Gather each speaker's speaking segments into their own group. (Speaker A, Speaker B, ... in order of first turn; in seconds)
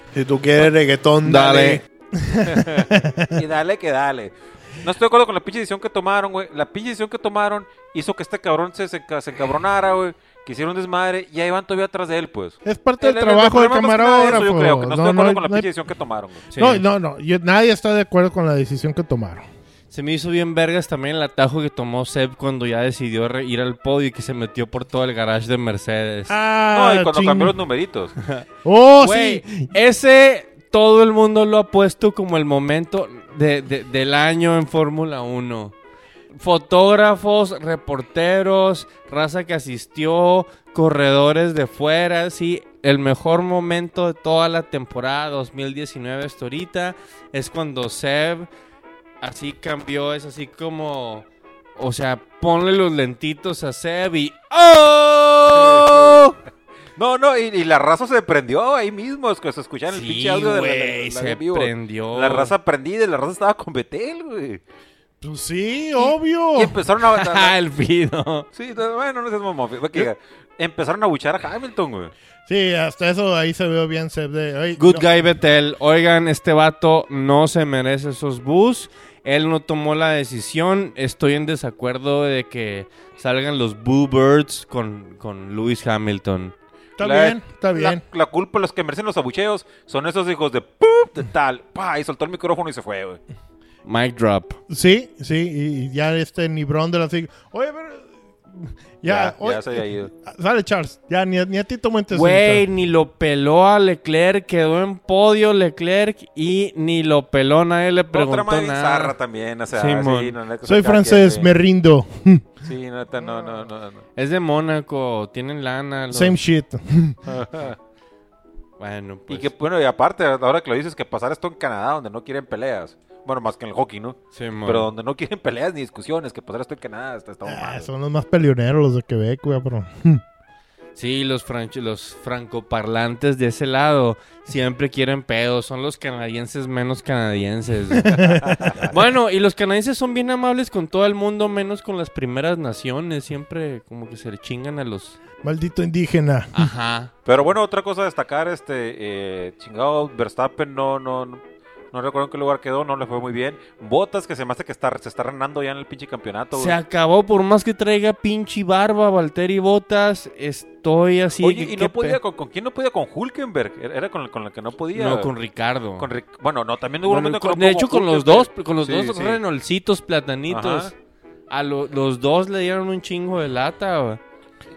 Speaker A: 0.1-3.4, 12.7-15.7, 16.6-19.5, 26.3-27.6, 28.6-29.7, 65.2-66.8, 72.5-75.0, 87.0-88.0, 94.7-102.7, 110.6-112.5, 116.1-117.2, 127.5-130.2, 138.0-138.6, 145.4-146.7
Speaker B: 1.2-1.8, 16.5-16.8, 19.9-26.4, 29.0-35.8, 36.3-48.5, 49.2-56.4, 59.9-62.5, 67.1-68.5, 74.8-86.5, 93.8-94.6, 102.1-109.2, 109.7-110.4, 114.2-116.4, 118.8-119.5, 124.3-124.9, 131.0-145.2, 146.5-147.1, 156.5-162.2, 164.9-166.1, 167.1-170.9, 171.5-174.2
Speaker C: 2.5-16.5, 26.7-28.1, 55.5-56.2, 57.0-64.6, 66.0-67.5, 68.6-72.1, 87.0-93.2, 99.0-100.1, 108.1-111.5, 112.6-114.0, 117.3-117.8, 119.3-127.9, 138.4-138.9, 147.3-156.8, 161.4-165.3, 166.0-169.4, 170.5-170.9